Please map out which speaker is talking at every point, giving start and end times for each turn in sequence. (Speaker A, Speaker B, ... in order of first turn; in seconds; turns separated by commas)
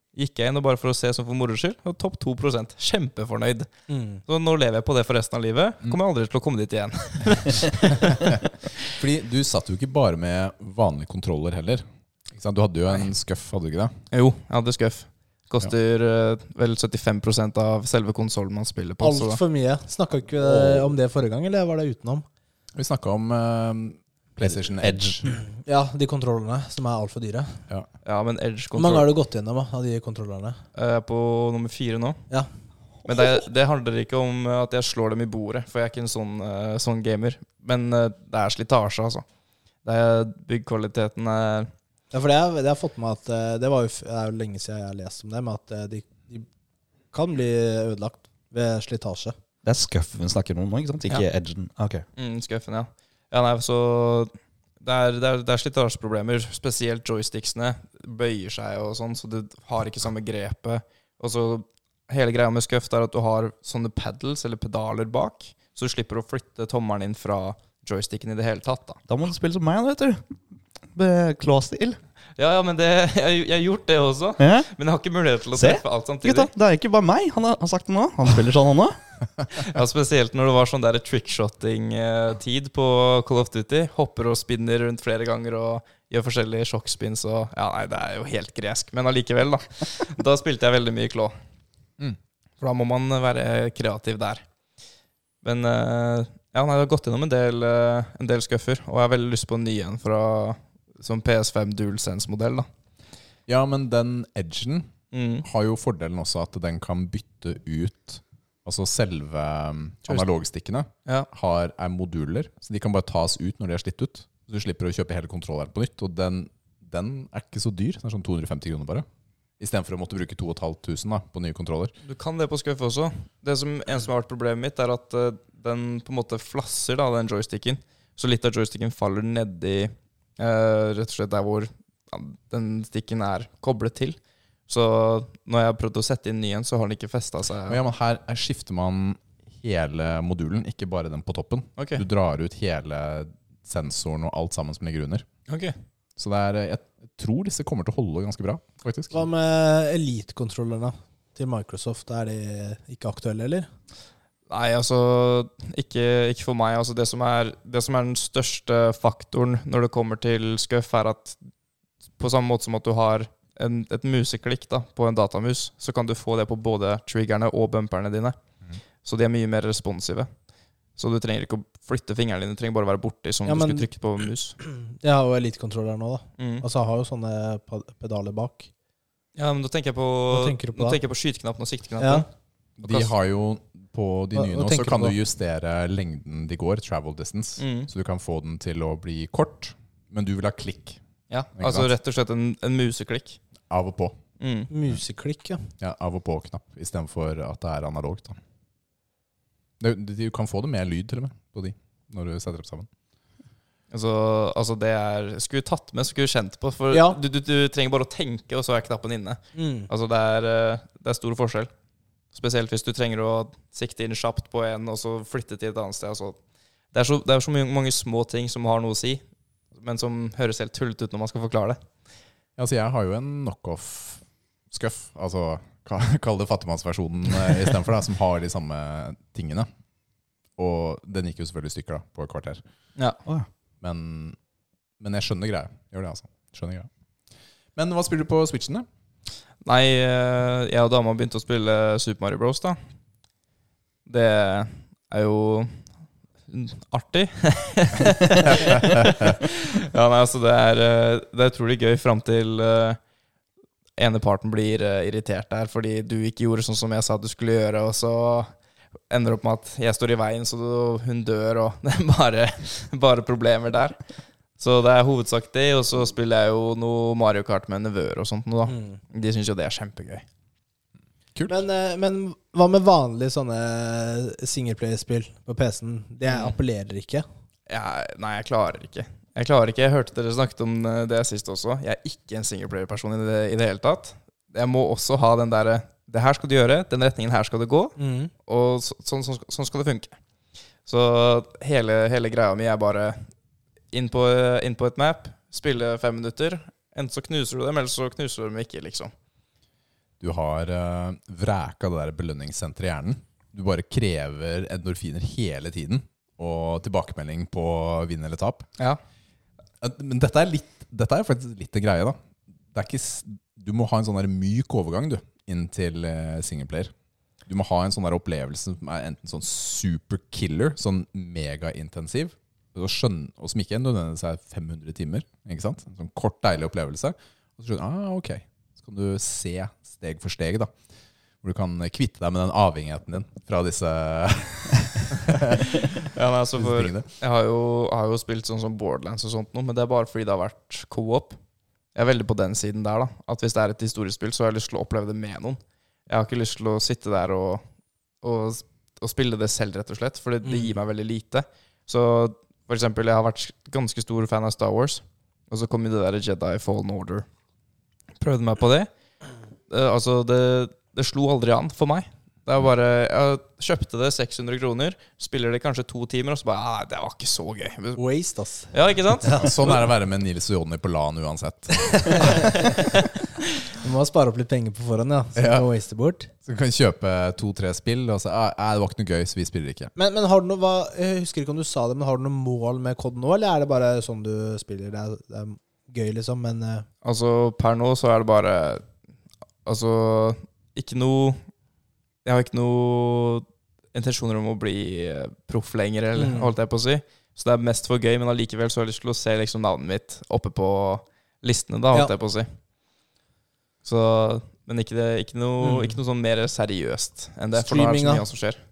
Speaker A: 0.1-3.7, Speaker B: 3.9-4.2, Speaker A: 4.3-8.4, Speaker C: 8.0-8.4, Speaker C: 8.9-13.9, Speaker A: 14.1-19.4, Speaker B: 19.0-22.2, Speaker D: 20.4-20.9, Speaker C: 22.8-25.2, Speaker D: 24.8-25.3, Speaker B: 25.6-27.5, Speaker A: 28.0-29.1, Speaker B: 28.7-30.6, Speaker A: 30.7-32.2, Speaker A: 33.0-39.2, Speaker A: 39.8-41.7, Speaker B: 42.1-46.5, Speaker B: 47.1-49.3, Speaker D: 49.6-52.0, Speaker A: 52.2-69.0, Speaker D: 69.1-70.2, Speaker D: 70.9-72.0, Speaker A: 72.4-76.5, Speaker D: 74.4-74.7, Speaker D: 75.5-79.0, Speaker A: 79.5-91.3, Speaker A: 92.6-94.4, Speaker A: 95.4-102.7, Speaker C: 103.5-104.9, Speaker A: 105.1-105.4, Speaker C: 105.4-119.0, Speaker C: 119.6-121.9, Speaker A: 122.0-134.2, Speaker A: 134.7-137.8, Speaker C: 137.7-145.2, Speaker A: 141.8-142.0, Speaker A: 145.5-145.7, Speaker C: 146.2-149.2, Speaker B: 149.1-153.7, Speaker A: 154.5-161.4, Speaker A: 162.2-168.3, Speaker A: 169.0-170.3, Speaker A: 171.0-174.6, Speaker B: 173.4-173.9, Speaker B: 174.6-178.7, Speaker A: 176.4-176.6, Speaker A: 179.3-182.3, Speaker B: 180.3-181.0, Speaker B: 182.0-182.2, Speaker C: 182.8-191.0, Speaker A: 182.8-183.1, Speaker B: 184.3-185.2, Speaker A: 187.6-187.9, Speaker A: 191.3-193.4, Speaker C: 191.6-191.9, Speaker C: 193.7-194.2, Speaker A: 194.4-194.7, Speaker B: 194.7-195.7, Speaker C: 195.8-198.4, Speaker C: 199.8-202.9, Speaker A: 203.9-211.7, Speaker B: 206.9-207.2, Speaker B: 209.5-209.9, Speaker A: 212.3-216.4, Speaker A: 216.9-219.2, Speaker A: 219.7-221.8, Speaker C: 222.6-229.7, Speaker C: 230.6-232.6, Speaker C: 233.8-234.4, Speaker C: 235.0-236.9, Speaker C: 237.8-238.8, Speaker A: 239.6-242.8, Speaker A: 244.1-245.8, Speaker A: 246.5-253.0, Speaker C: 248.4-249.3, Speaker A: 254.0-258.5, Speaker A: 259.1-264.0, Speaker A: 264.6-270.2, Speaker B: 268.7-269.0, Speaker B: 271.5-277.2, Speaker A: 276.3-276.6, Speaker A: 277.7-290.1, Speaker B: 288.0-288.3, Speaker A: 290.9-293.2, Speaker A: 293.9-299.1, Speaker C: 300.2-308.7, Speaker C: 309.8-312.2, Speaker C: 312.7-316.9, Speaker C: 317.5-330.7, Speaker C: 331.4-337.1, Speaker A: 335.6-341.4, Speaker A: 341.9-347.6, Speaker A: 348.2-357.2, Speaker B: 350.4-350.7, Speaker A: 358.2-358.9, Speaker A: 359.7-368.0, Speaker B: 367.9-368.7, Speaker A: 368.7-369.7, Speaker B: 369.2-369.8, Speaker C: 369.3-372.4, Speaker B: 372.1-372.7, Speaker B: 373.8-376.3, Speaker C: 375.4-375.6, Speaker C: 376.4-379.9, Speaker B: 379.9-386.9, Speaker A: 387.0-388.9, Speaker A: 389.6-391.4, Speaker A: 392.2-402.5, Speaker B: 396.1-396.5, Speaker A: 403.8-408.6, Speaker B: 405.6-406.0, Speaker B: 407.5-408.2